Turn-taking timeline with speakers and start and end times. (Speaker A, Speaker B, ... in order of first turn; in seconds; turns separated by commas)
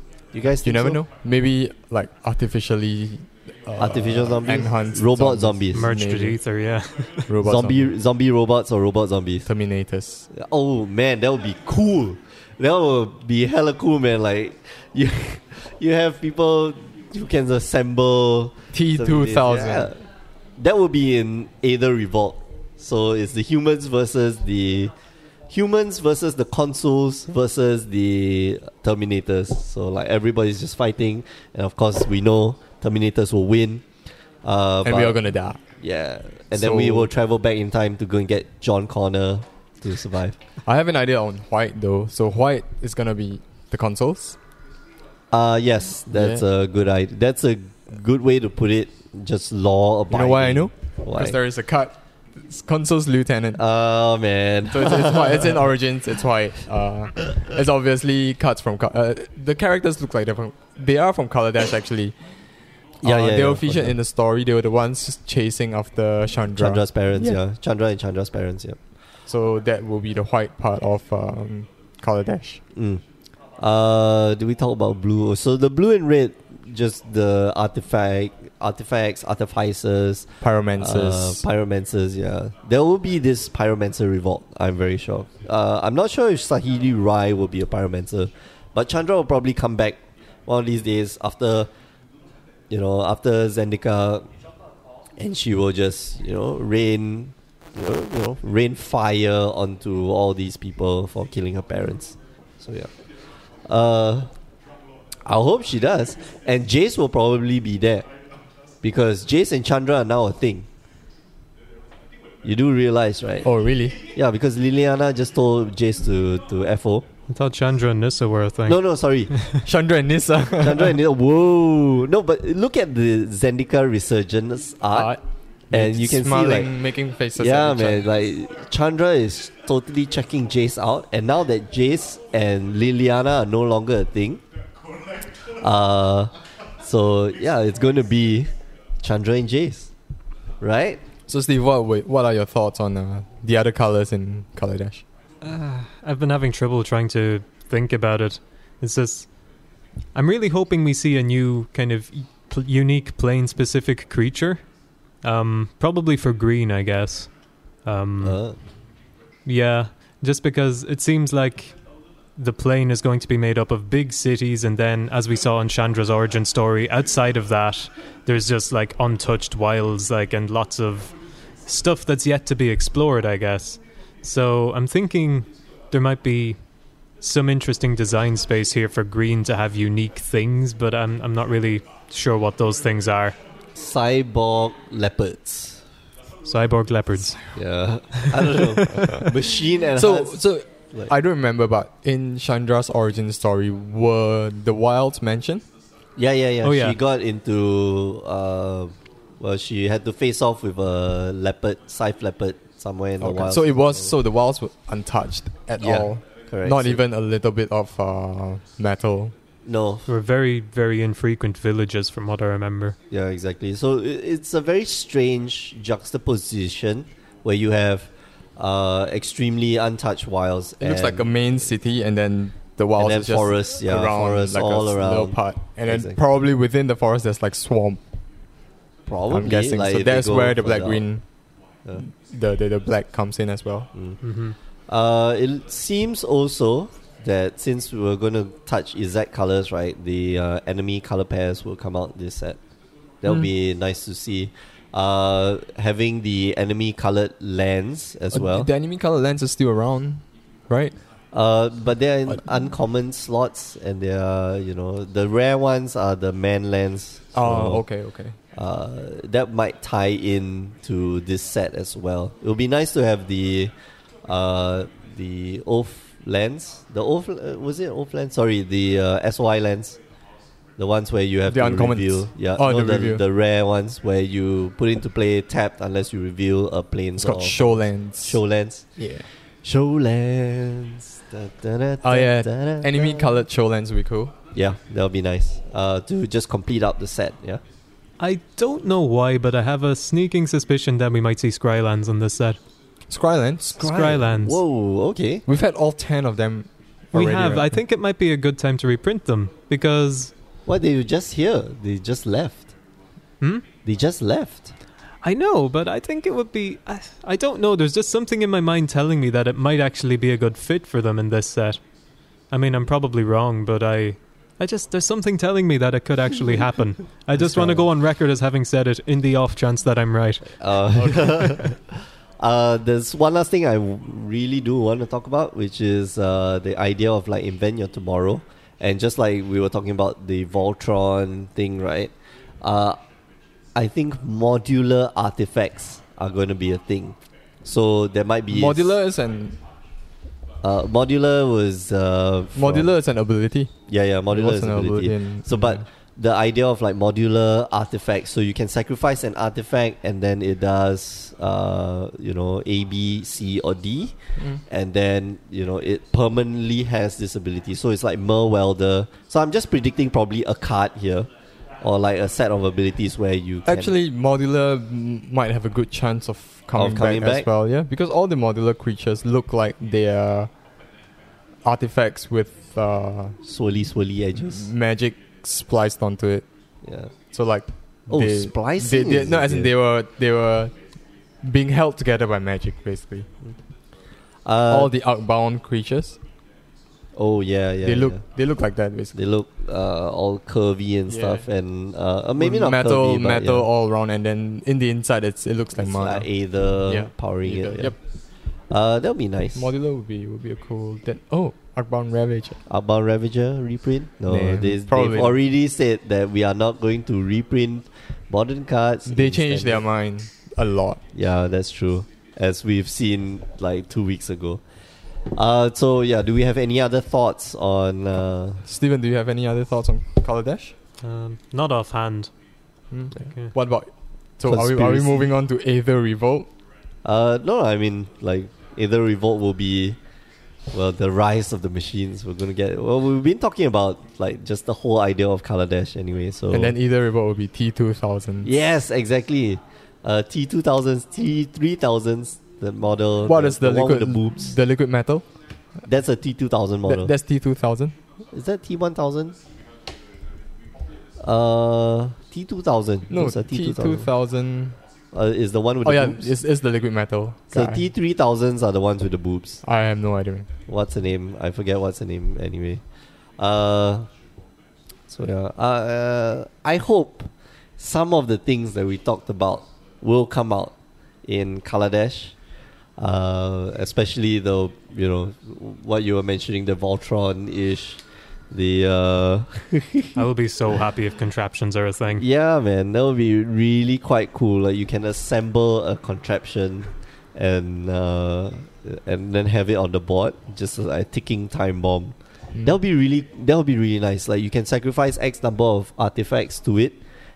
Speaker A: 0.3-1.0, Speaker B: 0.6-6.4, Speaker A: 3.8-5.9, Speaker C: 5.7-7.3, Speaker B: 7.3-7.9, Speaker A: 7.4-9.5, Speaker B: 9.5-10.3, Speaker A: 10.3-20.1, Speaker B: 18.7-19.9, Speaker A: 20.6-24.9, Speaker A: 25.5-33.8, Speaker A: 34.4-35.2, Speaker B: 34.8-35.6, Speaker A: 35.8-40.4, Speaker B: 36.5-37.1, Speaker B: 40.7-44.4, Speaker A: 45.3-51.4, Speaker B: 46.1-46.4, Speaker B: 50.1-53.6, Speaker A: 53.5-55.7, Speaker B: 54.7-62.1, Speaker A: 63.0-64.0, Speaker B: 63.0-67.4, Speaker A: 66.5-68.8, Speaker B: 69.3-72.6, Speaker A: 72.7-73.0, Speaker A: 73.6-91.7, Speaker B: 80.4-81.4, Speaker A: 92.7-94.3, Speaker A: 95.2-102.9, Speaker A: 103.7-104.3, Speaker A: 105.3-108.1, Speaker A: 108.8-110.7, Speaker A: 112.4-113.5, Speaker B: 113.4-114.0, Speaker A: 114.1-117.0, Speaker C: 117.3-119.6, Speaker A: 118.7-119.3, Speaker B: 119.7-121.0, Speaker A: 120.6-125.2, Speaker B: 124.9-128.1, Speaker A: 125.7-126.8, Speaker A: 127.4-134.4, Speaker A: 135.6-138.5, Speaker A: 139.0-139.9, Speaker A: 140.6-141.0, Speaker B: 141.3-145.1, Speaker C: 145.4-149.3, Speaker C: 150.2-154.6, Speaker C: 155.2-157.3, Speaker C: 157.8-158.4, Speaker A: 158.2-158.6, Speaker C: 159.5-161.8, Speaker C: 162.4-176.6, Speaker C: 177.2-183.4, Speaker A: 183.8-185.8, Speaker C: 186.4-187.4, Speaker A: 187.5-191.1, Speaker C: 188.1-189.3, Speaker B: 188.9-189.2, Speaker B: 189.9-195.6, Speaker A: 196.2-204.2, Speaker C: 196.6-197.0, Speaker B: 203.2-209.3, Speaker A: 205.8-207.0, Speaker A: 209.7-210.1, Speaker C: 210.1-213.0, Speaker A: 213.1-221.4, Speaker B: 220.8-228.0, Speaker A: 223.0-226.2, Speaker A: 229.1-231.1, Speaker B: 229.3-231.2, Speaker B: 232.0-233.9, Speaker A: 233.9-234.2, Speaker C: 234.2-234.6, Speaker A: 234.9-242.6, Speaker A: 243.2-248.7, Speaker B: 248.3-250.9, Speaker A: 251.3-257.9, Speaker B: 257.3-258.4, Speaker A: 258.6-263.7, Speaker A: 264.3-270.0, Speaker A: 270.8-279.0, Speaker B: 271.5-273.2, Speaker B: 277.2-278.4, Speaker B: 279.0-279.2, Speaker A: 279.6-283.4, Speaker B: 282.0-284.3, Speaker A: 284.5-287.6, Speaker C: 288.2-292.6, Speaker B: 293.1-293.8, Speaker A: 293.8-295.4, Speaker C: 293.8-294.6, Speaker B: 295.5-297.8, Speaker C: 297.1-300.3, Speaker A: 300.7-302.7, Speaker A: 303.8-304.7, Speaker C: 305.2-311.8, Speaker C: 312.5-320.5, Speaker A: 317.4-317.9, Speaker A: 320.5-333.0, Speaker A: 333.8-339.0, Speaker B: 338.5-339.6, Speaker A: 340.6-342.9, Speaker B: 342.6-343.7, Speaker A: 343.9-354.1, Speaker B: 344.3-345.8, Speaker B: 354.4-354.6, Speaker A: 354.7-361.3, Speaker A: 361.8-364.0, Speaker B: 363.7-370.5, Speaker A: 366.8-367.5, Speaker B: 371.6-373.4, Speaker A: 373.4-374.7, Speaker B: 374.5-376.5, Speaker A: 376.8-377.1, Speaker B: 377.3-380.8, Speaker A: 378.1-379.7, Speaker B: 381.4-383.3, Speaker A: 384.4-384.9, Speaker B: 384.7-386.2, Speaker A: 387.2-388.2, Speaker B: 387.8-389.1, Speaker A: 389.1-393.7, Speaker B: 391.1-391.4, Speaker B: 392.4-396.3, Speaker A: 395.8-397.9, Speaker B: 396.8-398.0, Speaker A: 398.7-399.7, Speaker B: 399.6-402.6, Speaker A: 402.7-409.8, Speaker B: 404.3-405.4, Speaker B: 409.1-411.0, Speaker A: 411.1-414.6, Speaker A: 415.3-418.6, Speaker B: 418.7-420.7, Speaker C: 421.0-422.3, Speaker B: 422.9-426.5, Speaker A: 424.4-425.3, Speaker A: 427.0-430.0, Speaker A: 430.7-436.8, Speaker B: 436.5-438.5, Speaker A: 438.4-444.6, Speaker B: 443.2-445.2, Speaker A: 445.9-447.1, Speaker B: 446.9-447.9, Speaker A: 448.3-449.4, Speaker A: 451.2-454.1, Speaker B: 453.1-454.8, Speaker A: 455.1-456.3, Speaker B: 455.8-457.8, Speaker A: 457.5-459.6, Speaker B: 459.6-460.5, Speaker A: 460.7-462.8, Speaker A: 463.4-464.1, Speaker A: 465.1-470.7, Speaker A: 471.3-472.4, Speaker A: 473.0-480.2, Speaker C: 480.2-482.2, Speaker A: 482.2-497.0